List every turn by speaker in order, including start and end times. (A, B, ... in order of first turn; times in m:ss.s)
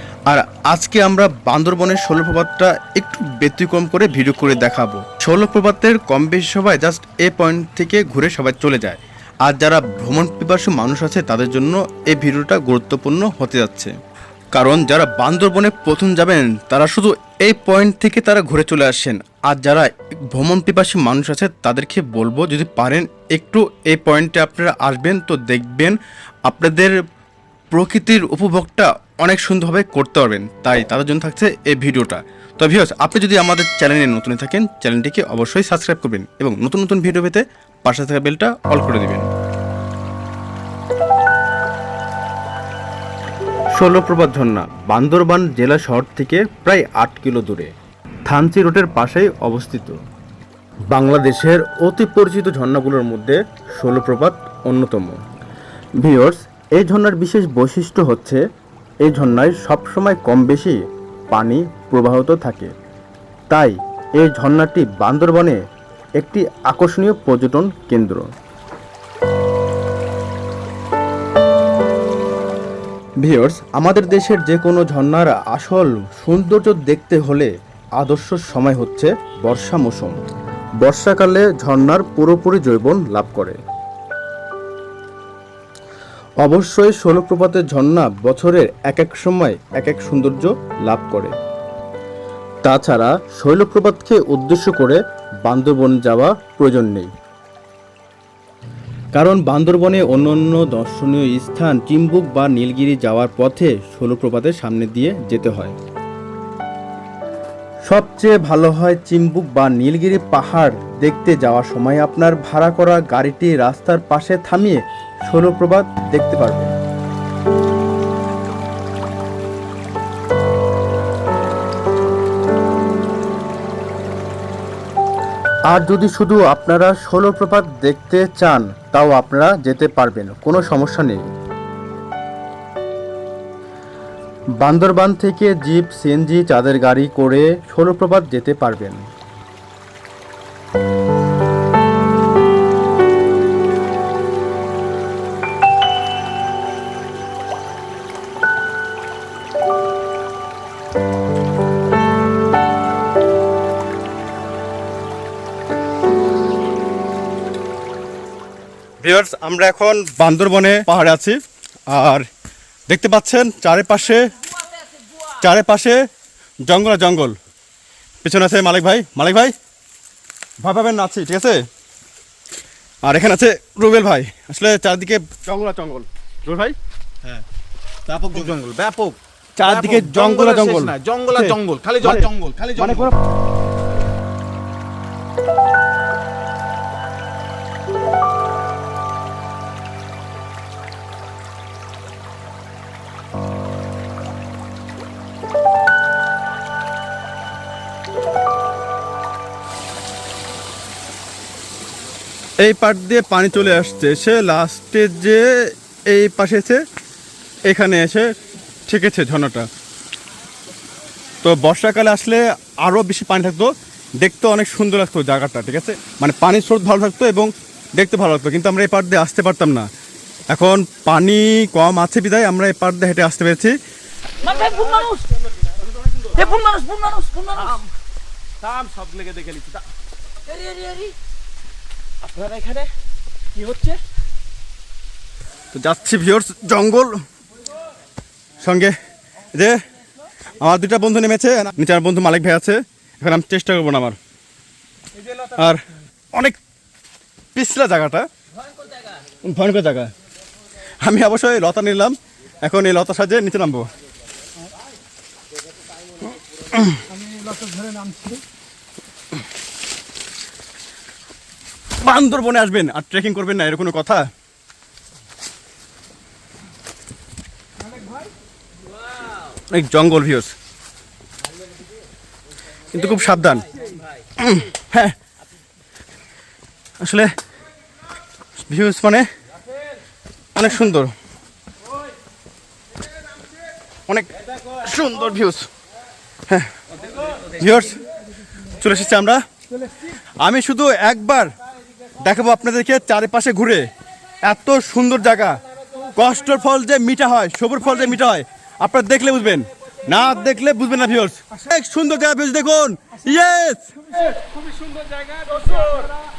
0:00.3-0:13.9 A
0:14.5-0:26.9 A
0:27.7-0:39.3 A
0:43.8-0:47.7 A
0:48.3-0:49.9 A
0:50.9-0:55.2 A
0:56.0-0:58.4 A
0:59.0-1:02.7 A
1:03.5-1:05.6 A
1:06.2-1:08.2 A
1:13.2-1:20.2 A
1:20.8-1:23.6 A
1:26.4-1:31.3 A
1:32.6-1:37.1 A
1:39.1-1:45.7 A
1:47.8-1:56.7 A
2:05.7-2:11.2 A
2:14.6-2:19.1 A
2:39.0-2:41.4 A
2:41.9-2:42.2 A
2:42.9-2:44.4 A
2:45.3-2:46.0 A
2:46.6-2:47.3 A
2:48.2-2:49.5 A
2:50.6-2:51.6 A
2:53.0-2:56.7 A
2:58.1-3:03.1 B
2:58.2-2:58.5 A
2:59.6-3:03.1 A
3:22.6-3:25.6 A
3:26.1-3:26.8 A
3:27.6-3:28.3 A
3:28.9-3:29.7 A
3:31.4-3:39.9 A
3:40.5-3:43.8 A
3:44.5-3:45.3 C
3:44.5-3:44.8 B
3:45.7-3:46.6 B
3:46.5-3:47.7 C
3:47.5-3:47.9 B
3:48.6-3:49.8 B
3:50.6-3:51.1 C
3:52.2-3:52.9 B
3:53.6-3:54.0 B
3:55.7-3:57.2 A
3:58.6-3:59.0 A
3:59.5-3:59.8 A
4:00.6-4:04.2 A
4:05.4-4:05.8 A
4:07.5-4:08.3 A
4:09.4-4:10.1 A
4:11.0-4:13.8 A
4:17.8-4:18.4 C
4:22.0-4:24.3 A
4:29.7-4:30.5 A
4:32.9-4:33.7 A
4:34.4-4:35.1 A
4:37.0-4:37.3 A
4:38.6-4:39.3 A
4:40.5-4:41.1 A
4:44.1-4:45.7 A
4:47.5-4:48.0 A
4:48.7-4:49.4 A
4:50.4-4:51.5 A
4:52.2-4:53.9 A
4:54.4-4:55.6 A
4:56.1-5:03.9 A